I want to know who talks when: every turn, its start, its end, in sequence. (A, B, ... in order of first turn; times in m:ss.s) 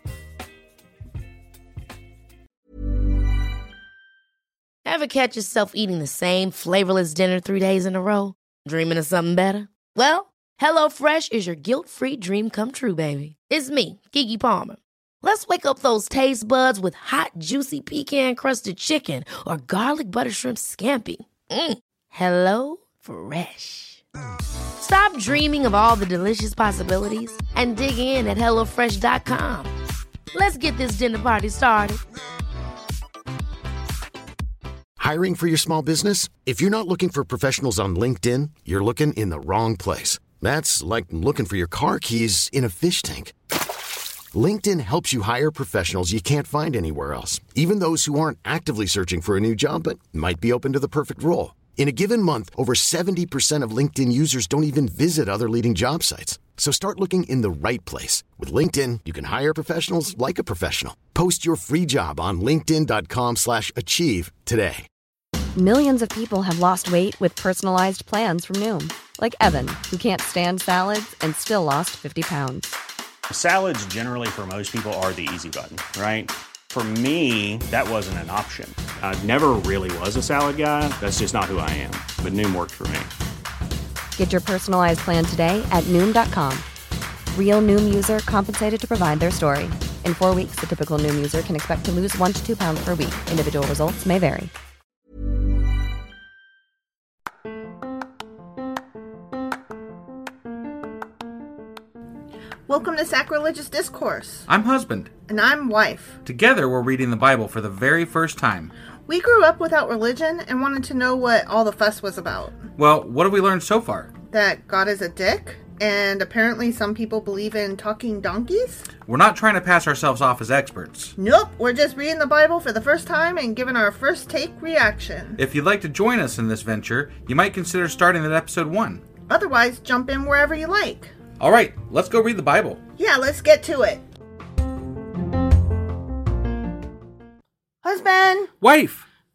0:04.8-0:24.0 A
0:24.8-0:29.7 A
0:30.3-0:32.0 A
0:35.0-0:43.3 B
0:44.3-1:04.8 B
1:05.6-1:12.7 C
1:13.3-1:23.1 D
1:24.2-1:26.7 C
1:27.3-1:34.5 C
1:42.7-1:44.4 E
1:44.5-1:45.1 F
1:45.3-1:46.2 E
1:46.2-1:48.7 F
1:49.1-1:52.6 E
1:52.8-1:54.1 F
1:54.3-1:58.9 E
1:59.1-2:01.2 F
2:01.2-2:05.4 E
2:05.4-2:09.0 F
2:09.3-2:11.1 E
2:11.4-2:12.8 F
2:13.0-2:14.0 E
2:17.8-2:18.5 E
2:18.6-2:19.1 F